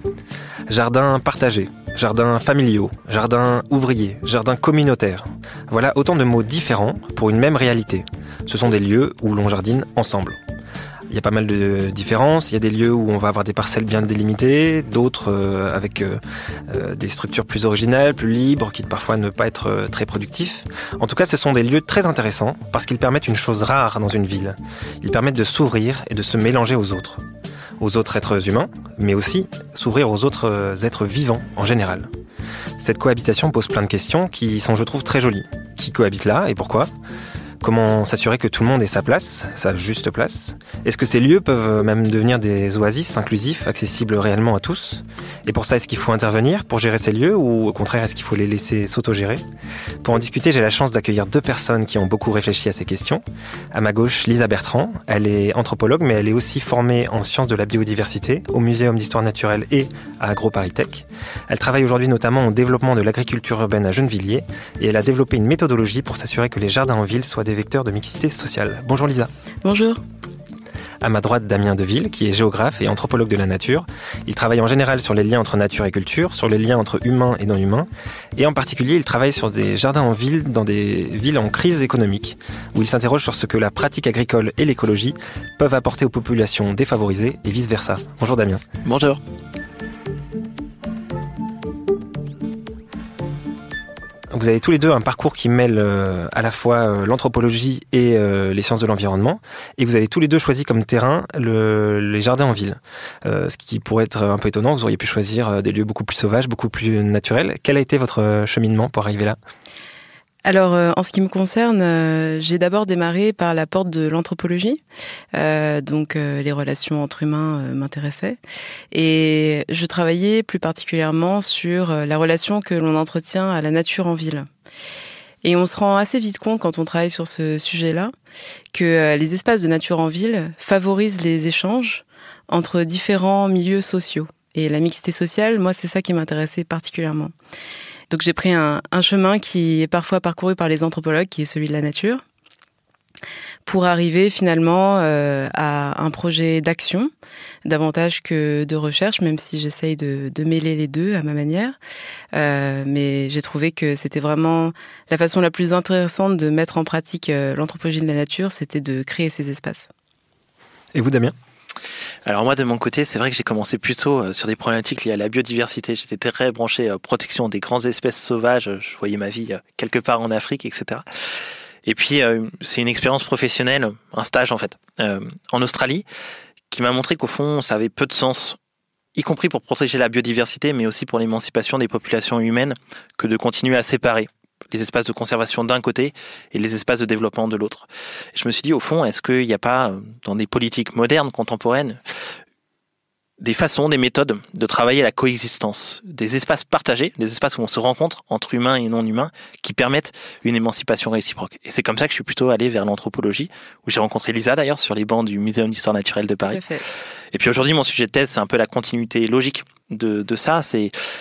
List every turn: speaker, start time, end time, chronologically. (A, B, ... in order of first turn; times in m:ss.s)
0:00.7-0:10.4 A
0:11.1-0:27.2 A
0:27.8-0:32.1 A
0:32.8-0:36.9 A
0:37.6-0:49.4 A
0:50.0-1:09.3 A
1:09.6-1:10.0 B
1:11.0-1:28.6 A
1:28.8-1:29.2 C
1:34.3-1:49.4 A
1:50.4-1:54.8 B
1:55.3-1:58.4 B
1:58.9-2:04.5 B
2:05.4-2:08.1 B
2:08.7-2:17.3 B
2:18.1-2:22.2 B
2:23.7-2:27.1 B
2:27.6-2:31.8 B
2:32.3-2:39.9 B
2:40.9-2:41.4 A
2:42.3-2:51.0 C
2:51.9-2:56.0 C
2:56.7-2:58.6 C
2:59.2-3:12.0 C
3:13.4-3:26.6 C
3:26.4-3:26.8 B
3:27.3-3:30.9 C